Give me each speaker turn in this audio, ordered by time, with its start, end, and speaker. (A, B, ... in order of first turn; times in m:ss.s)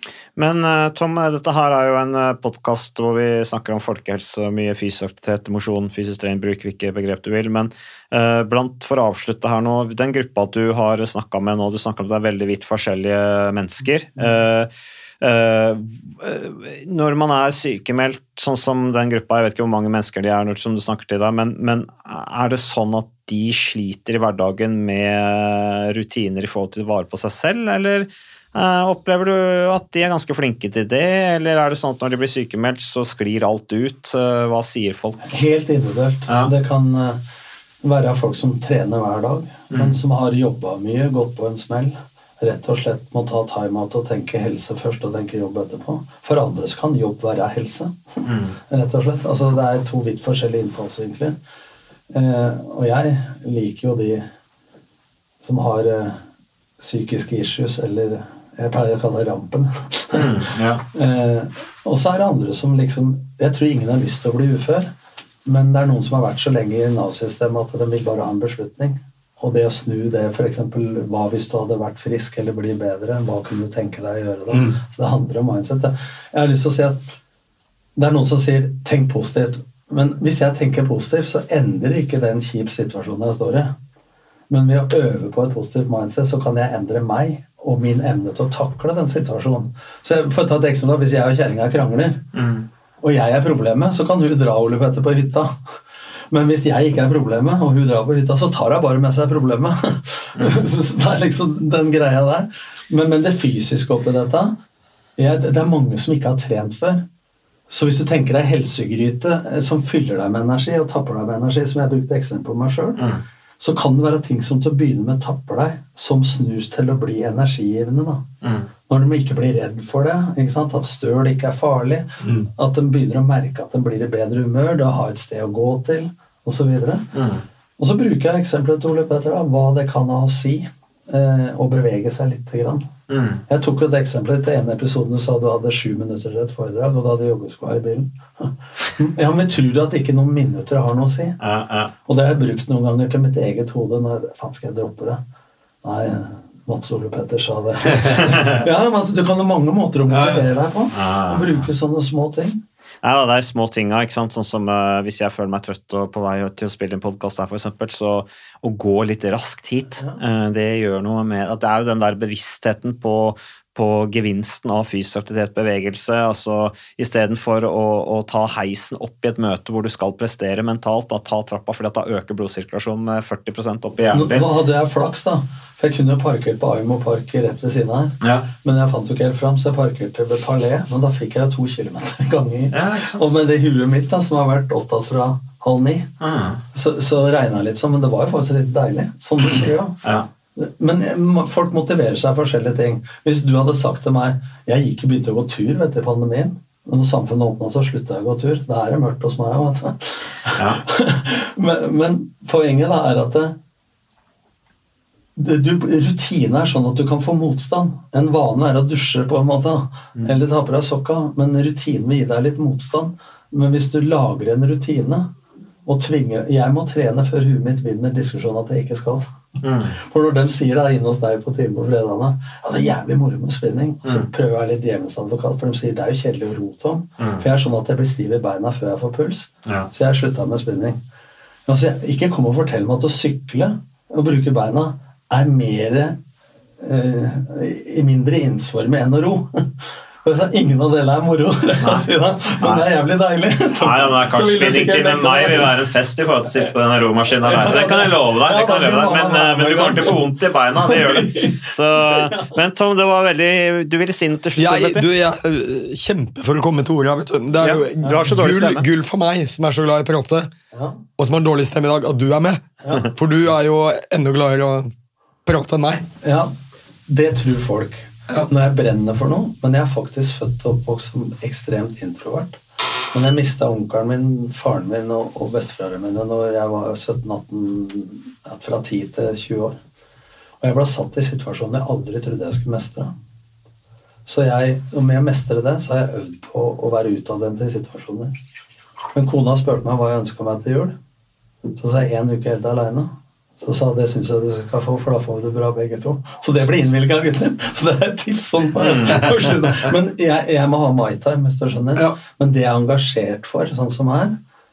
0:00.4-0:14.7 A
0:15.2-0:35.4 A
0:35.3-0:37.2 B
0:37.8-0:51.4 B
0:39.7-0:40.0 A
0:48.2-0:48.6 A
0:52.1-0:54.3 B
0:55.4-0:56.2 B
0:56.8-1:00.3 B
1:00.1-1:00.8 A
1:00.9-1:04.9 B
1:05.4-1:17.1 B
1:14.5-1:14.8 C
1:18.0-1:23.7 B
1:24.5-1:32.2 B
1:32.3-1:32.7 A
1:33.0-1:35.6 B
1:36.3-1:44.6 B
1:45.2-1:47.0 B
1:47.7-1:53.0 B
1:53.0-1:53.2 A
1:53.6-1:58.2 B
1:58.4-1:58.7 A
1:58.9-2:07.1 B
2:02.2-2:02.5 C
2:07.1-2:07.4 A
2:07.8-2:12.9 B
2:13.1-2:13.4 A
2:13.5-2:21.4 B
2:21.4-2:21.9 A
2:22.1-2:25.2 B
2:25.8-2:32.6 B
2:28.2-2:28.6 A
2:30.1-2:30.4 C
2:30.9-2:31.7 A
2:33.0-2:54.5 A
2:54.1-3:06.1 B
2:58.2-2:58.5 A
3:02.7-3:03.4 A
3:06.2-3:06.6 A
3:06.7-3:10.0 B
3:10.6-3:23.6 B
3:25.4-3:35.3 B
3:35.9-3:39.2 B
3:39.6-3:40.0 A
3:40.0-3:51.0 B
3:47.2-3:47.4 A
3:51.7-3:56.2 B
3:56.8-4:05.7 B
4:02.6-4:02.9 A
4:03.8-4:15.1 A
4:07.5-4:10.2 B
4:10.8-4:12.6 B
4:14.6-4:20.5 C
4:17.6-4:18.9 A
4:18.0-4:18.3 B
4:20.7-4:21.0 B
4:21.2-4:24.9 C
4:25.5-4:26.0 C
4:26.2-4:26.5 B
4:27.1-4:32.6 B
4:33.1-4:39.8 B
4:40.6-4:43.1 B
4:44.3-4:48.3 B
4:49.2-4:51.0 B
4:51.8-5:04.4 B
4:58.8-4:59.2 A